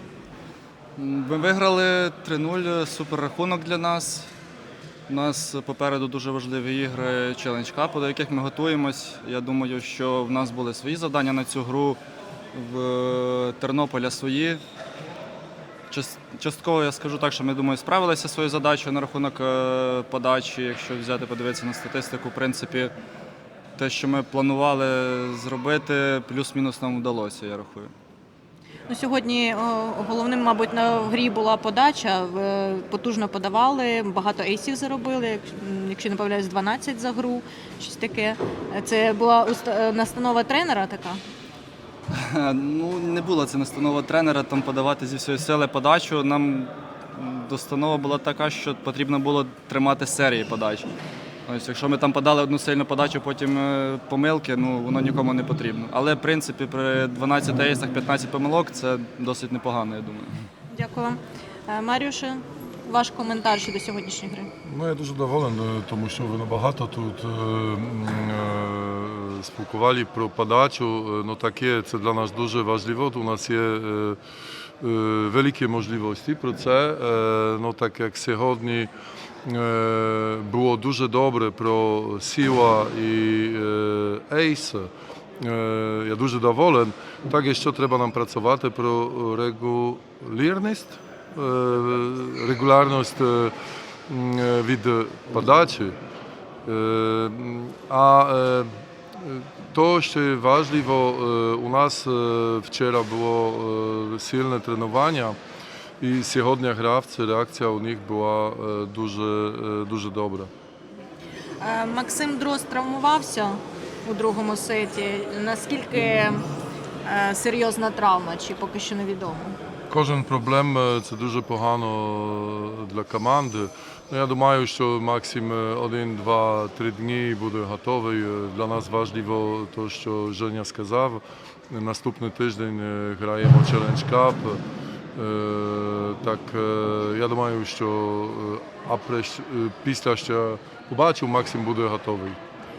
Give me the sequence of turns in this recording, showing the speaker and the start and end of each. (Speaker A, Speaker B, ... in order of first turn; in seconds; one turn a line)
Speaker A: 1.0-4.3
Speaker A: 5.1-12.0
Speaker A: 12.5-14.6
Speaker A: 15.9-22.9
Speaker A: 23.8-27.9
Speaker B: 28.9-41.2
Speaker A: 42.1-50.9
Speaker A: 51.5-60.4
Speaker B: 60.7-64.5
Speaker C: 64.6-74.2
Speaker C: 74.8-78.9
Speaker C: 79.4-84.9
Speaker C: 85.4-93.5
Speaker C: 94.1-96.0
Speaker C: 96.7-105.4
Speaker C: 106.0-110.5
Speaker B: 111.6-116.5
Speaker B: 117.0-119.6
Speaker C: 119.9-134.6
Speaker C: 135.2-142.4